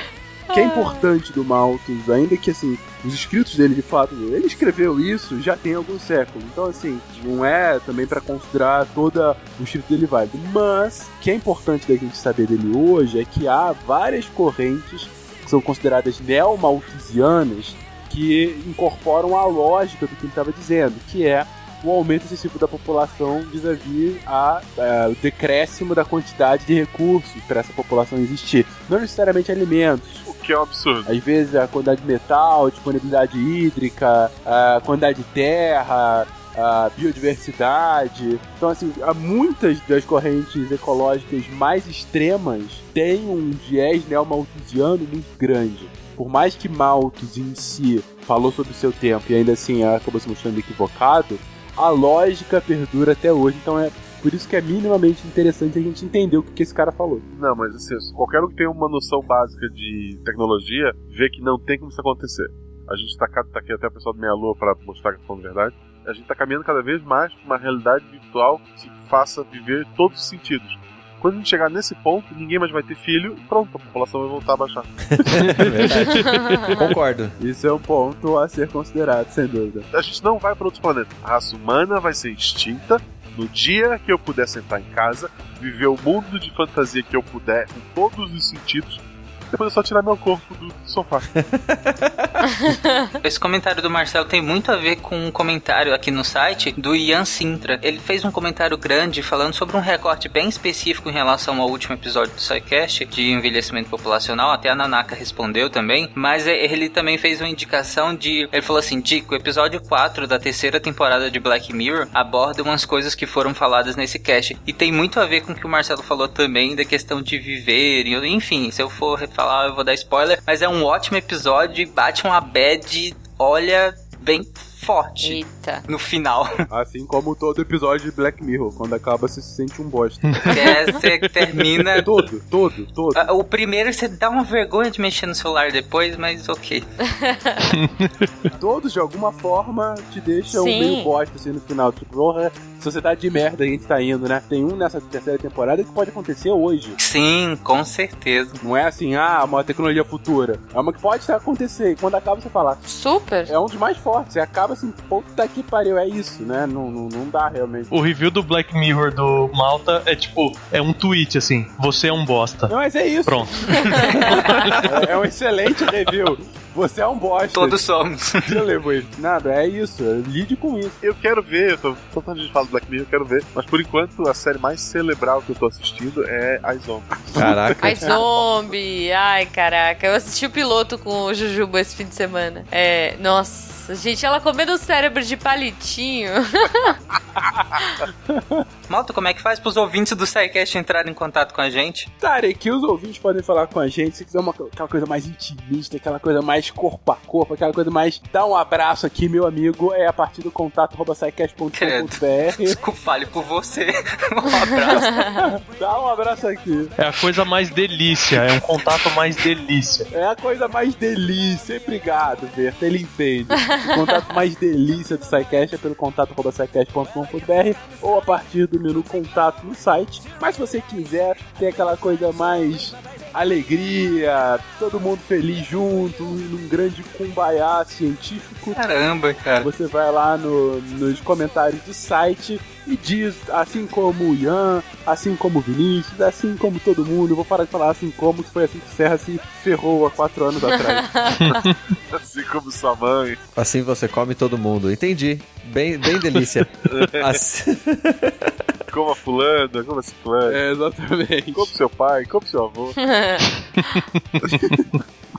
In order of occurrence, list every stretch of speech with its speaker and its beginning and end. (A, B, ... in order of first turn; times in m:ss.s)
0:00.5-0:01.0 A
0:00.5-0:30.3 B
0:30.2-0:31.1 C
0:31.1-0:57.3 B
0:57.3-1:14.9 C
1:15.2-1:17.4 D
1:15.5-1:16.5 E
1:16.4-1:16.8 A
1:17.4-1:19.9 B
1:19.9-1:29.0 C
1:29.5-1:31.3 C
1:31.4-1:32.7 D
1:32.7-1:33.1 A
1:33.2-2:06.7 F
2:05.2-2:05.9 A
2:06.7-2:10.5 B
2:10.2-2:11.6 E
2:10.5-2:12.2 F
2:11.9-2:13.2 B
2:13.2-2:16.9 F
2:17.1-2:17.7 A
2:17.7-2:18.3 E
2:18.6-2:27.0 B
2:20.5-2:21.1 A
2:27.0-2:28.6 F
2:28.6-2:32.8 B
2:32.9-2:33.5 A
2:33.5-2:37.9 B
2:37.9-2:42.8 E
2:42.7-2:47.8 B
2:43.3-2:44.9 E
2:47.5-2:48.6 F
2:48.4-2:51.0 B
2:51.0-2:57.5 C
2:57.3-2:58.2 B
2:57.4-2:58.2 D
2:57.8-3:07.0 A
3:08.1-3:08.6 B
3:08.9-3:12.1 F
3:12.2-3:22.8 B
3:21.7-3:25.3 F
3:25.1-3:25.4 A
3:25.4-3:26.9 B
3:27.0-3:30.1 E
3:30.1-3:48.8 B
3:48.8-3:49.7 F
3:49.6-4:01.1 B
4:00.7-4:01.6 A
4:01.4-4:01.8 E
4:02.1-4:03.4 C
4:03.6-4:08.6 D
4:06.8-4:07.4 C
4:08.9-4:10.6 C
4:10.5-4:11.7 B
4:11.5-4:13.0 C
4:13.0-4:14.0 A
4:13.9-4:14.2 E
4:14.4-4:14.9 B